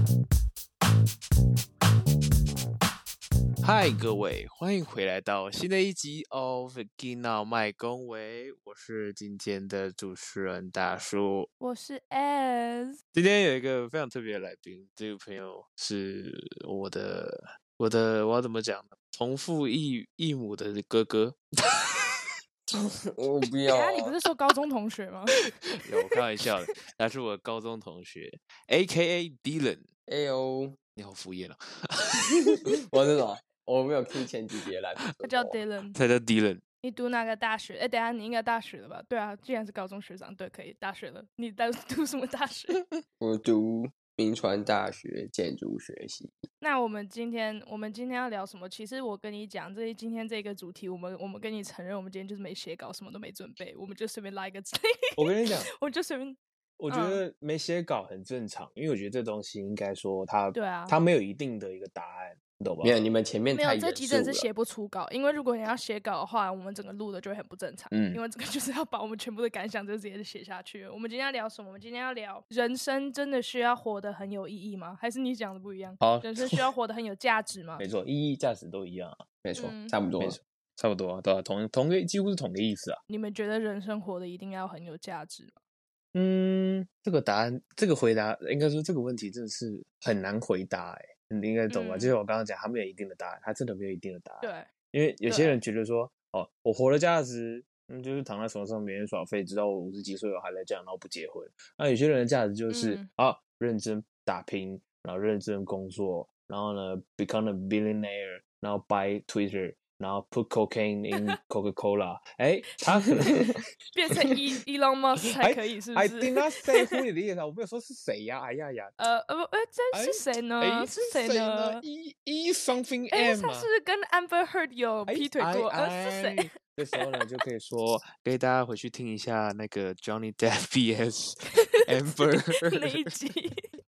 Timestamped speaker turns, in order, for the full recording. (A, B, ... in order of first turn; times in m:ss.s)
0:03.6-0:11.5 A
0:11.6-0:13.0 B
0:13.1-0:22.1 A
0:22.7-0:24.1 C
0:23.7-0:25.4 B
0:25.8-0:29.9 A
0:30.1-0:30.8 C
0:31.0-0:32.7 A
0:32.8-0:35.5 C
0:35.2-0:36.0 B
0:36.0-0:36.6 A
0:36.8-0:42.8 B
0:43.2-0:46.4 C
0:46.6-0:56.4 B
0:55.2-0:55.7 A
0:56.8-1:03.0 A
0:56.9-0:57.2 B
1:00.5-1:01.0 B
1:02.8-1:04.5 C
1:03.6-1:17.8 B
1:07.9-1:08.2 A
1:16.0-1:16.6 A
1:17.8-1:19.2 A
1:19.4-1:20.4 C
1:19.6-1:20.0 B
1:20.2-1:23.0 A
1:23.1-1:25.6 B
1:26.1-1:53.4 A
1:31.7-1:32.1 B
1:34.4-1:34.7 B
1:35.3-1:35.6 B
1:42.7-1:43.1 B
1:53.9-1:57.0 B
1:55.3-1:58.9 A
1:59.0-2:01.8 B
1:59.9-2:03.7 A
2:03.1-2:07.1 B
2:05.1-2:13.1 A
2:11.5-2:11.8 B
2:12.4-2:13.7 B